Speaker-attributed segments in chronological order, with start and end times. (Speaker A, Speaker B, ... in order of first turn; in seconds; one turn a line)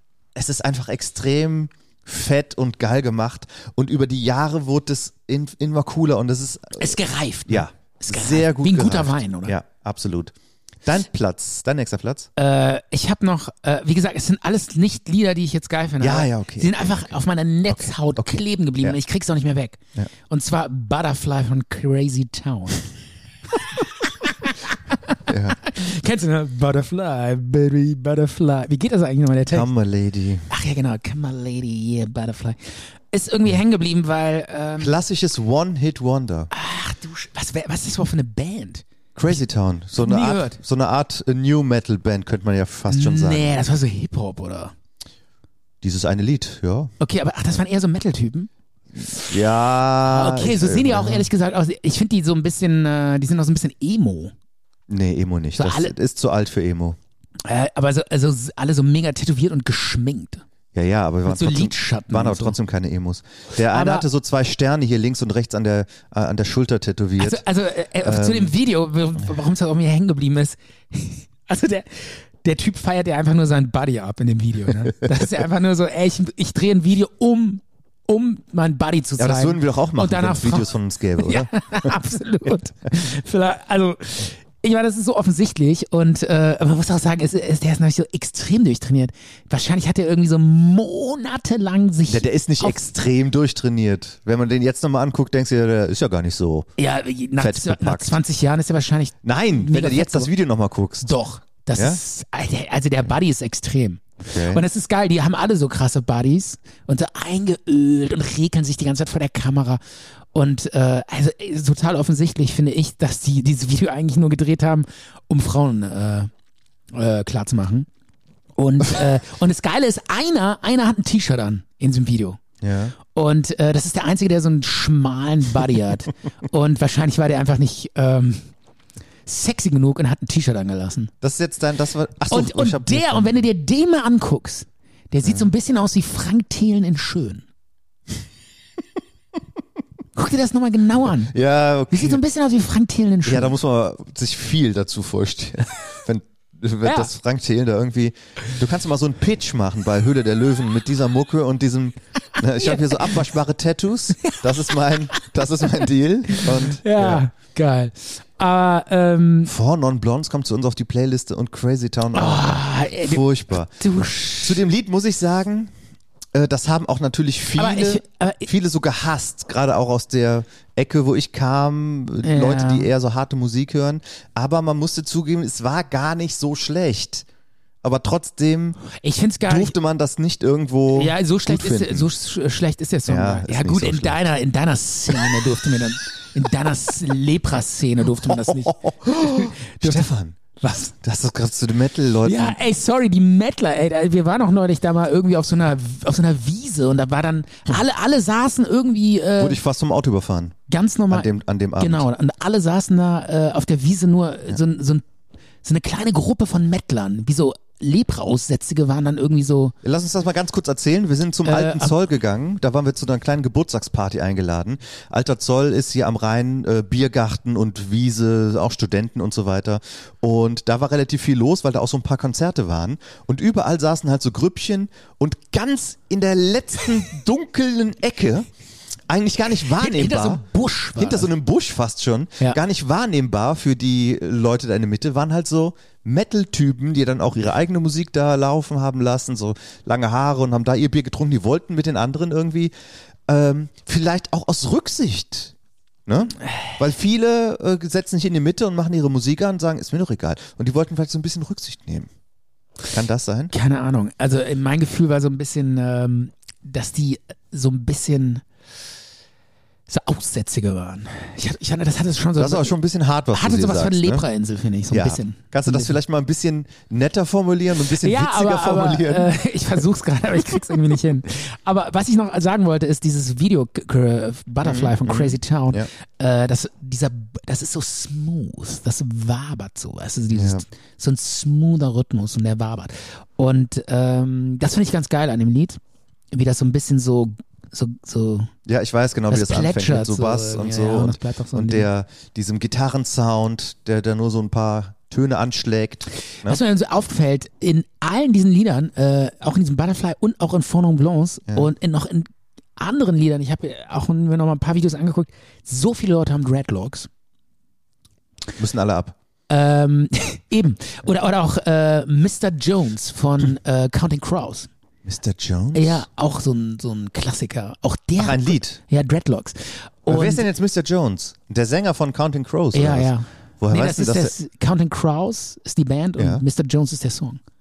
Speaker A: 0.3-12.3
Speaker B: 6.8-9.6
Speaker B: 12.4-22.8
Speaker A: 16.0-17.1
Speaker A: 17.7-19.0
Speaker B: 23.8-29.7
Speaker A: 25.3-25.6
Speaker A: 29.5-30.5
Speaker B: 30.5-35.0
Speaker A: 34.8-36.5
Speaker B: 36.5-39.4
Speaker A: 39.1-43.5
Speaker B: 40.0-40.6
Speaker B: 42.9-44.7
Speaker A: 45.8-46.9
Speaker B: 47.0-48.5
Speaker A: 49.2-51.3
Speaker B: 50.0-54.3
Speaker A: 54.9-57.0
Speaker B: 55.6-55.9
Speaker B: 57.5-60.4
Speaker A: 60.7-67.4
Speaker B: 61.3-62.6
Speaker B: 63.7-64.1
Speaker B: 67.2-92.9
Speaker A: 68.0-68.5
Speaker A: 79.2-81.9
Speaker A: 92.1-96.7
Speaker B: 96.8-100.3
Speaker A: 97.4-98.2
Speaker A: 99.2-101.1
Speaker B: 101.0-109.8
Speaker A: 104.3-104.6
Speaker B: 110.3-116.3
Speaker B: 116.9-117.9
Speaker B: 118.6-122.4
Speaker A: 122.6-123.0
Speaker B: 123.0-128.5
Speaker B: 129.3-131.1
Speaker A: 131.2-133.4
Speaker B: 132.3-137.4
Speaker B: 140.2-141.3
Speaker A: 141.3-142.2
Speaker B: 141.9-143.6
Speaker A: 143.3-157.2
Speaker B: 146.8-147.1
Speaker B: 152.6-153.2
Speaker B: 155.1-159.5
Speaker A: 159.5-163.8
Speaker B: 162.1-164.6
Speaker A: 164.4-165.7
Speaker A: 166.3-177.3
Speaker B: 167.6-168.5
Speaker B: 172.2-172.9
Speaker A: 177.8-178.8
Speaker B: 178.9-179.8
Speaker A: 179.5-182.1
Speaker B: 180.9-190.1
Speaker A: 183.1-184.2
Speaker A: 188.1-190.4
Speaker B: 190.6-190.9
Speaker A: 190.9-192.6
Speaker B: 192.2-199.6
Speaker A: 199.4-200.6
Speaker B: 200.7-205.1
Speaker A: 201.1-202.1
Speaker B: 205.6-209.8
Speaker A: 209.8-228.5
Speaker B: 211.4-211.9
Speaker A: 229.1-230.4
Speaker B: 229.8-231.3
Speaker A: 231.0-242.7
Speaker A: 243.3-245.5
Speaker A: 246.1-252.1
Speaker B: 246.4-246.7
Speaker A: 252.9-253.5
Speaker B: 253.5-258.4
Speaker B: 259.9-262.8
Speaker A: 262.4-264.2
Speaker B: 263.3-265.9
Speaker A: 264.9-269.8
Speaker B: 268.0-285.8
Speaker A: 274.6-275.9
Speaker A: 280.3-280.6
Speaker B: 286.3-288.5
Speaker A: 288.7-296.6
Speaker B: 289.3-291.9
Speaker B: 296.4-307.1
Speaker A: 308.6-309.2
Speaker B: 309.5-314.7
Speaker A: 315.1-316.1
Speaker B: 315.7-320.5
Speaker A: 318.2-318.8
Speaker A: 320.1-324.3
Speaker B: 322.7-327.4
Speaker A: 326.2-326.4